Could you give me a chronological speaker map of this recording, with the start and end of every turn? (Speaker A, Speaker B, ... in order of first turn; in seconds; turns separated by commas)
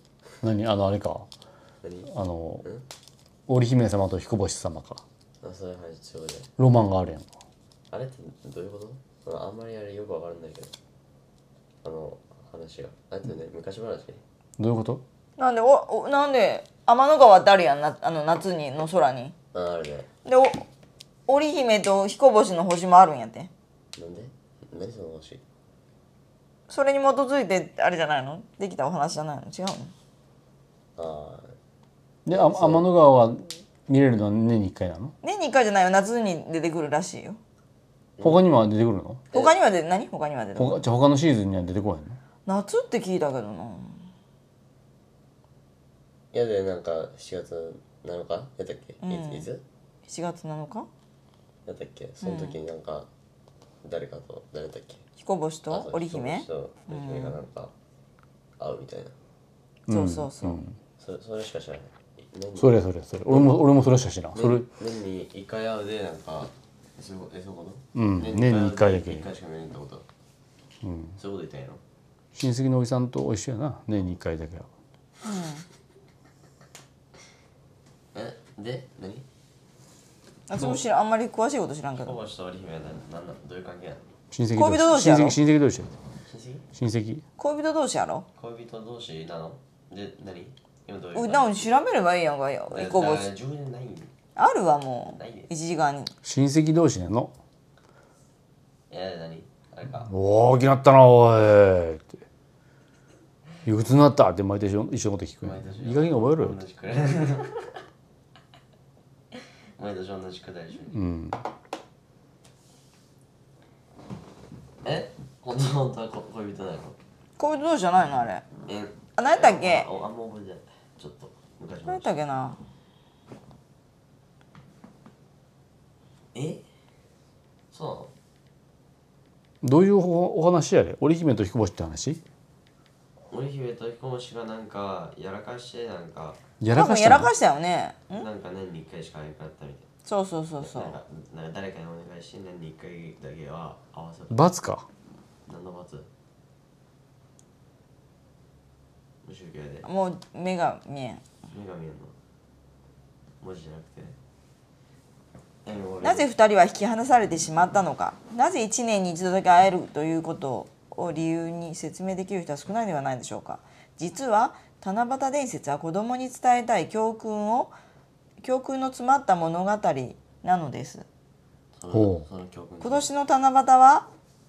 Speaker A: 0.4-1.3, Speaker B: 1.8-2.1, Speaker A: 2.1-2.6, Speaker A: 3.5-5.0, Speaker B: 5.4-6.5, Speaker A: 6.6-7.3, Speaker B: 7.9-10.7, Speaker B: 11.8-14.2, Speaker A: 14.6-15.0, Speaker C: 15.4-19.3, Speaker B: 19.5-20.1, Speaker C: 20.2-20.7, Speaker C: 21.3-23.5, Speaker B: 24.0-25.4, Speaker C: 26.7-29.9, Speaker B: 31.0-31.5, Speaker A: 32.3-35.1, Speaker B: 32.3-32.9, Speaker C: 35.2-37.4, Speaker B: 38.2-38.4, Speaker A: 38.2-39.2, Speaker C: 39.3-40.8, Speaker A: 40.5-42.2, Speaker C: 42.5-44.1, Speaker B: 46.3-49.6, Speaker C: 49.0-49.5, Speaker C: 50.1-50.9, Speaker B: 51.7-53.1, Speaker C: 52.2-52.6, Speaker B: 53.8-55.0, Speaker C: 55.2-57.4, Speaker B: 55.7-57.7, Speaker B: 58.6-59.1, Speaker C: 59.9-60.6, Speaker A: 59.9-60.8, Speaker B: 61.0-63.6, Speaker A: 62.6-64.7, Speaker B: 64.3-70.1, Speaker A: 68.0-69.3, Speaker A: 70.8-71.2, Speaker B: 71.2-71.8, Speaker A: 72.3-74.7, Speaker C: 75.2-75.6, Speaker B: 78.1-79.3, Speaker C: 80.5-82.2, Speaker B: 80.5-80.8, Speaker B: 81.9-84.0, Speaker A: 84.3-85.9, Speaker C: 84.5-85.4, Speaker B: 86.3-86.7, Speaker A: 86.8-87.2, Speaker C: 87.4-88.3, Speaker B: 88.4-91.5, Speaker C: 91.1-93.3, Speaker B: 92.7-94.1, Speaker C: 94.4-96.1, Speaker B: 95.1-95.5, Speaker A: 96.2-97.3, Speaker B: 98.9-100.1, Speaker A: 100.1-102.2, Speaker A: 103.7-106.6, Speaker B: 105.4-107.7, Speaker B: 109.8-111.0, Speaker A: 110.9-111.4, Speaker B: 114.8-117.0, Speaker C: 117.4-118.4, Speaker B: 118.7-122.2, Speaker C: 119.2-119.9, Speaker C: 121.9-122.6, Speaker B: 126.3-126.6, Speaker B: 127.7-128.1, Speaker A: 129.6-132.2, Speaker B: 133.3-136.4, Speaker A: 136.6-137.3, Speaker C: 136.7-138.3, Speaker B: 138.1-139.9, Speaker C: 140.1-141.0, Speaker B: 140.6-144.5, Speaker A: 144.3-144.9, Speaker B: 145.5-146.1, Speaker B: 149.2-149.9, Speaker C: 149.8-151.2, Speaker B: 151.5-152.1, Speaker B: 153.4-154.2, Speaker B: 155.7-156.3, Speaker C: 156.0-167.7, Speaker C: 168.4-171.1, Speaker B: 171.8-173.1, Speaker A: 171.9-172.2, Speaker C: 172.8-174.1